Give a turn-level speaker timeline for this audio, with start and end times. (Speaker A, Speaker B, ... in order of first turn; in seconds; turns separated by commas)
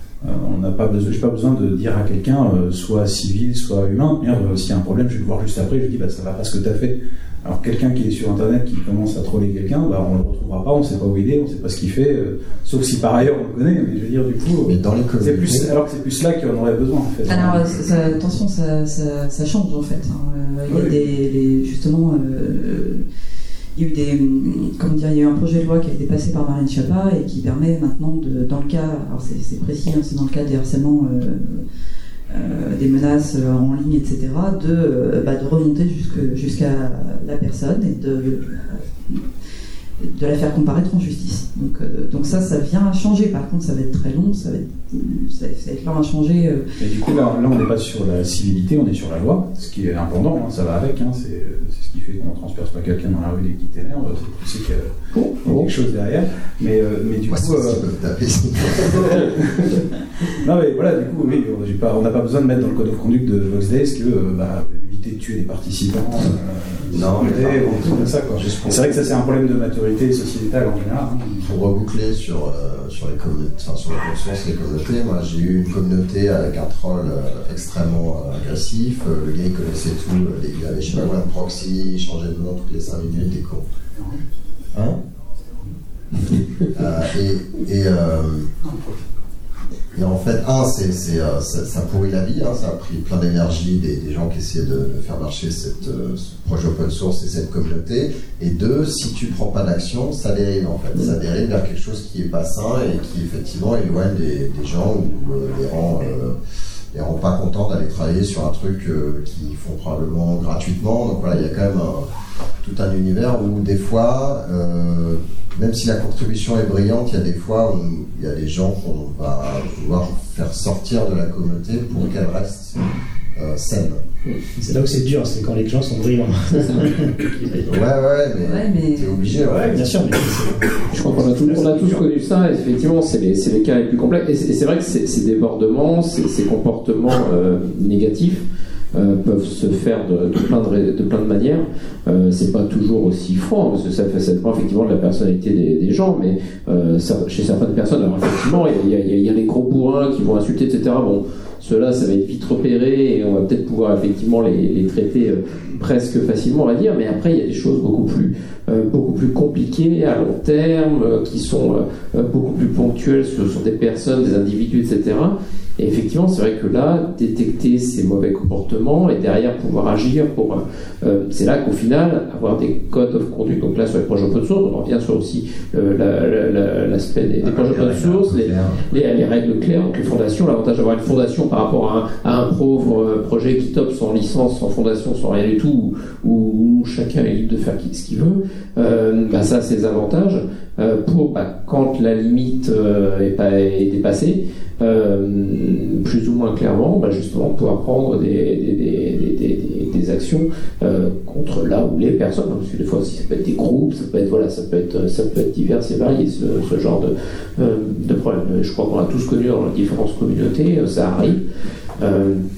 Speaker A: 0.2-18.0, Speaker B: 14.6-15.7, Speaker C: 17.2-23.0, Speaker A: 20.7-20.9, Speaker C: 23.7-31.6, Speaker C: 32.3-39.2, Speaker C: 40.0-46.6, Speaker A: 46.8-57.8, Speaker B: 57.3-59.3, Speaker A: 58.9-59.7, Speaker A: 60.4-71.5, Speaker B: 66.9-69.2, Speaker B: 71.4-83.7, Speaker B: 86.7-88.5, Speaker A: 88.6-89.0, Speaker B: 89.9-106.3, Speaker B: 106.9-112.1, Speaker B: 112.6-122.8, Speaker B: 123.3-124.0, Speaker D: 124.6-127.5, Speaker B: 127.6-130.1, Speaker C: 128.4-129.4, Speaker D: 129.7-132.0, Speaker E: 130.9-211.4, Speaker B: 177.4-179.0, Speaker E: 212.0-212.4